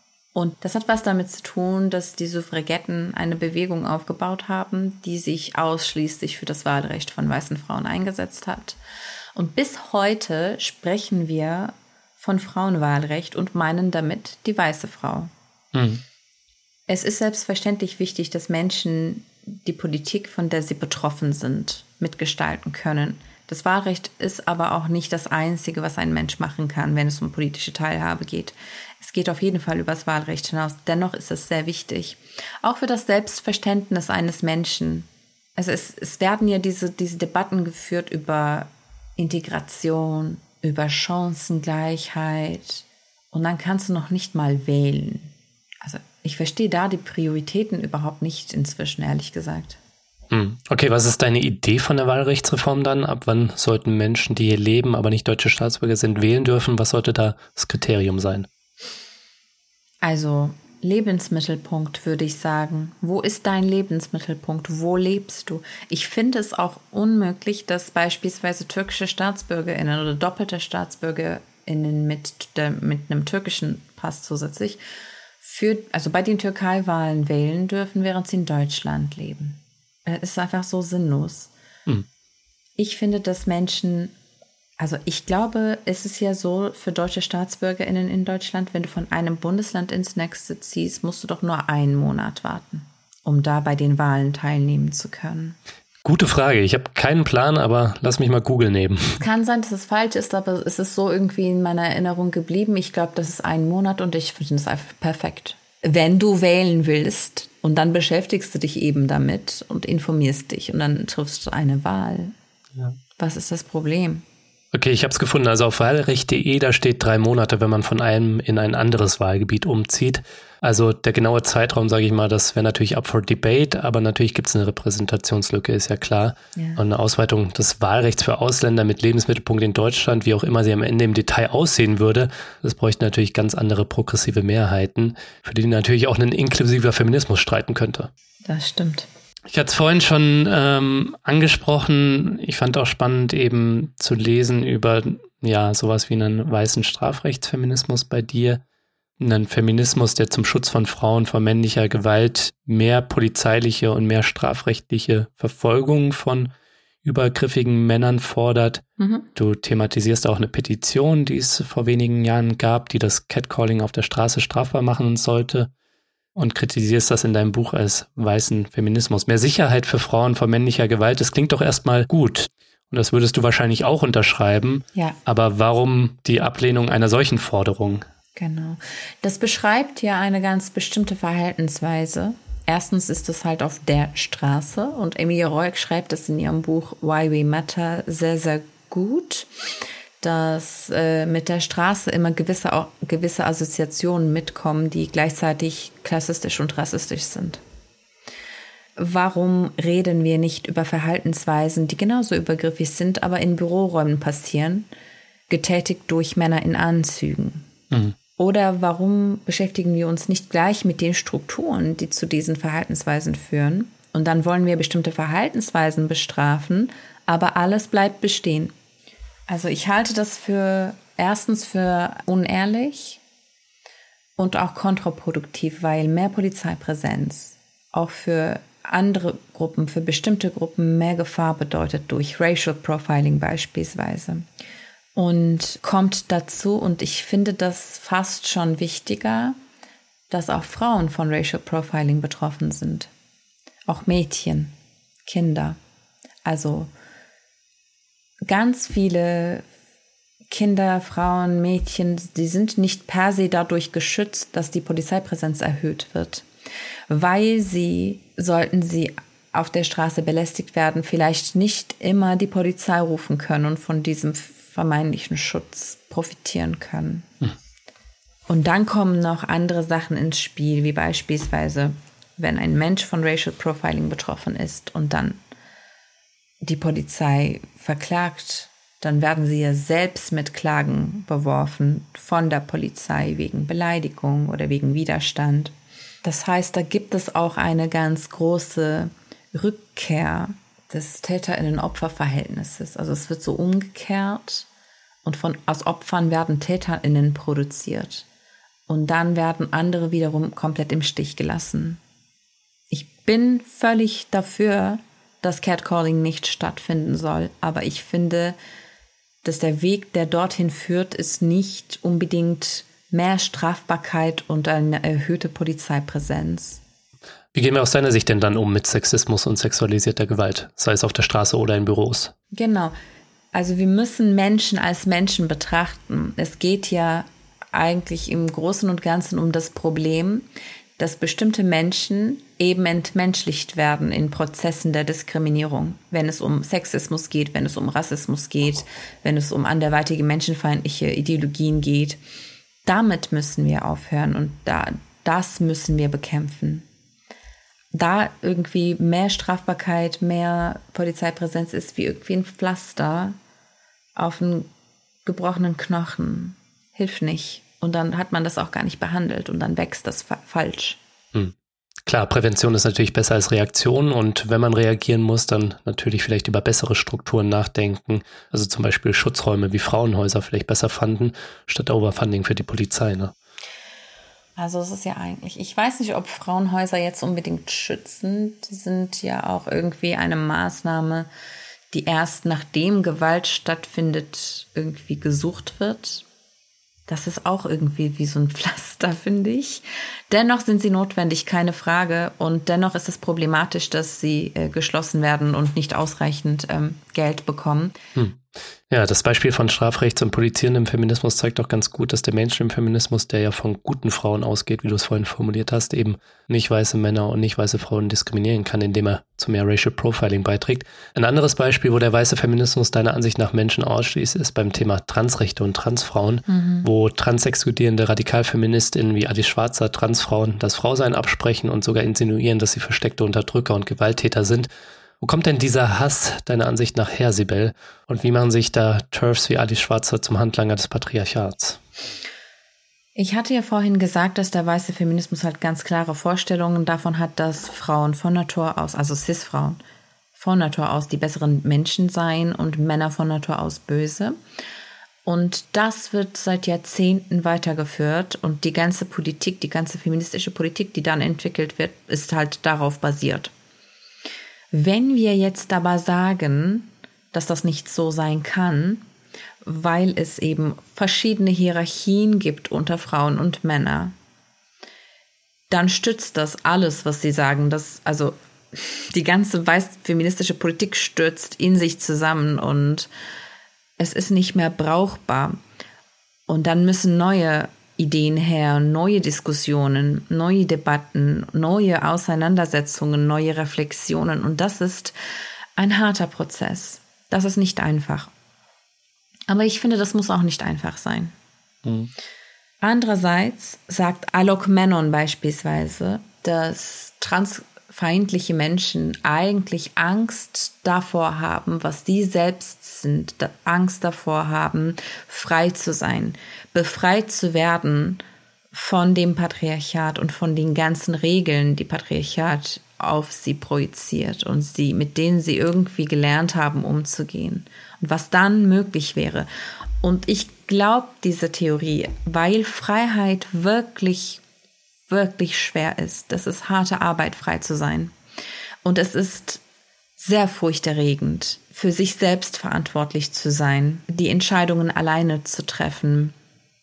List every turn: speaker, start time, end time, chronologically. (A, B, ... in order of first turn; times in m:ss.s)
0:00.3-0:08.8 A
0:09.3-0:15.3 A
0:15.7-0:16.0 B
0:16.9-0:49.8 A
0:50.3-0:58.5 B
1:00.0-1:14.8 A
1:15.4-1:21.5 A
1:22.8-1:24.1 A
1:24.8-1:35.6 A
1:36.0-1:39.2 B
1:39.2-1:52.3 A
1:53.2-1:54.2 A
1:54.7-2:18.1 B
2:06.6-2:06.8 A
2:18.4-2:19.1 A
2:19.5-2:28.6 B
2:29.2-2:36.5 B
2:37.0-2:38.8 B
2:39.0-2:39.3 A
2:39.3-2:45.7 B
2:46.4-2:58.0 B
2:58.4-3:09.5 A
3:10.2-3:17.6 A
3:19.0-3:24.9 A
3:25.5-3:27.7 A
3:28.4-3:38.7 A
3:39.5-3:43.2 A
3:44.4-3:54.4 A
3:55.1-3:59.6 A
4:00.3-4:03.1 A
4:03.9-4:04.7 A
4:05.2-4:05.8 A
4:06.4-4:06.9 A
4:08.5-4:09.6 A
4:10.5-4:16.4 A
4:17.1-4:27.3 A
4:28.5-4:35.4 A
4:36.6-4:54.7 A
4:55.2-4:58.2 A
4:58.9-5:02.0 A
5:02.9-5:08.6 A
5:09.4-5:16.8 A
5:17.5-5:22.3 B
5:22.5-5:22.9 A
5:23.5-5:30.5 A
5:31.0-5:42.2 A
5:42.8-5:46.8 A
5:47.9-5:53.4 A
5:54.2-5:54.7 A
5:55.2-6:01.0 A
6:01.3-6:13.3 B
6:14.6-6:21.3 A
6:21.9-6:26.2 A
6:27.1-6:38.0 A
6:38.2-7:04.7 B
6:56.5-6:56.9 A
7:05.2-7:11.8 B
7:13.1-7:19.8 A
7:20.3-7:24.4 A
7:25.2-7:33.5 A
7:34.7-7:39.0 A
7:39.6-7:44.1 A
7:45.7-7:53.1 A
7:54.0-7:55.6 A
7:56.5-8:05.1 A
8:05.8-8:08.3 A
8:09.5-8:11.3 A
8:11.8-8:12.1 B
8:12.8-8:28.2 A
8:28.7-8:39.5 A
8:40.0-8:44.4 A
8:45.1-8:48.1 A
8:48.8-8:49.6 A
8:50.2-8:56.3 A